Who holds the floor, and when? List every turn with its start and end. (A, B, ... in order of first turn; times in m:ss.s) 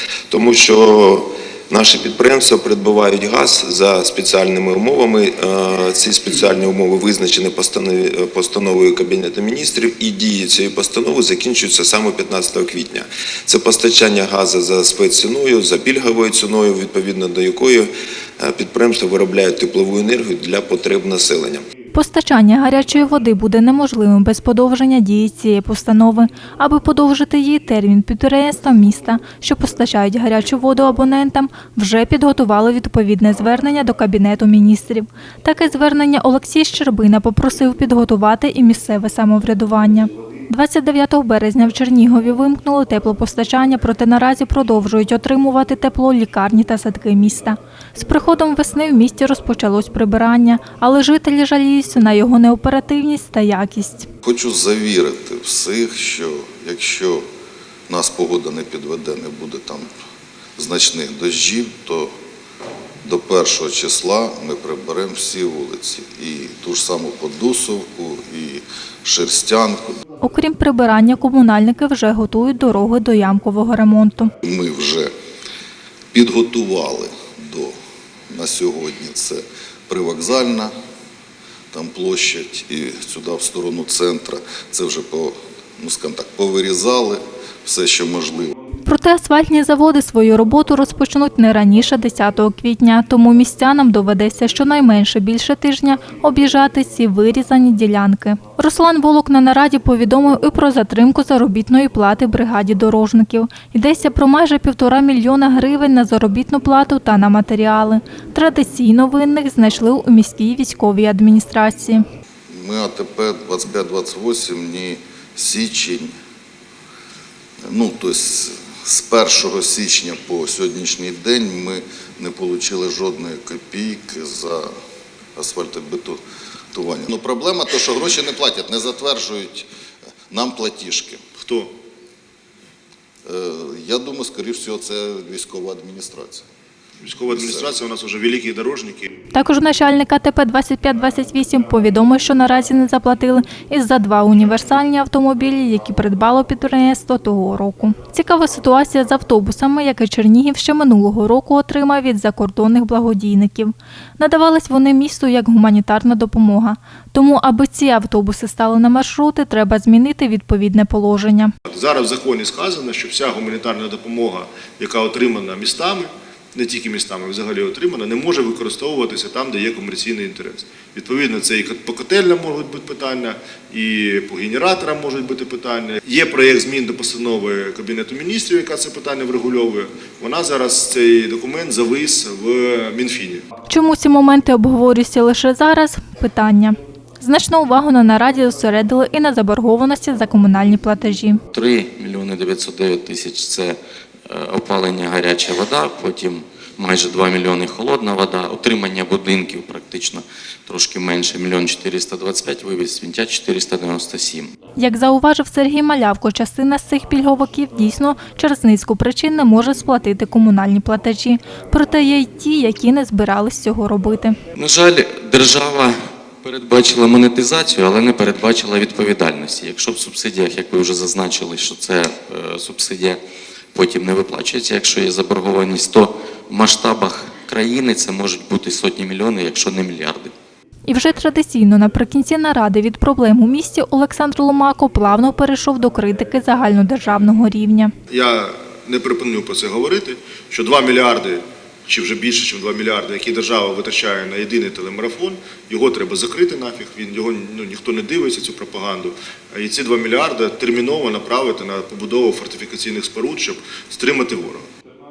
0:00.3-0:21.6 A
0:21.9-0:54.1 B
0:54.2-0:57.2 C
0:57.9-0:59.9 C
1:00.6-1:02.1 C
1:03.0-1:10.0 C
1:10.2-1:14.3 B
1:14.4-1:15.1 C
1:16.1-1:17.7 C
1:18.3-1:20.7 C
1:21.7-1:28.5 C
1:28.8-1:52.0 B
1:52.5-1:56.1 C
1:57.7-2:04.7 C
2:05.4-2:06.2 C
2:06.7-2:09.7 C
2:10.3-2:11.2 C
2:11.4-2:11.7 D
2:13.2-2:16.4 C
2:17.0-2:19.1 D
2:17.3-2:17.6 C
2:19.3-2:41.5 B
2:41.7-3:03.4 D
3:03.7-3:11.4 B
3:11.5-3:24.5 E
3:24.8-3:34.4 B
3:34.5-3:43.2 E
3:43.7-3:50.3 E
3:50.9-3:57.9 B
3:58.1-4:14.7 D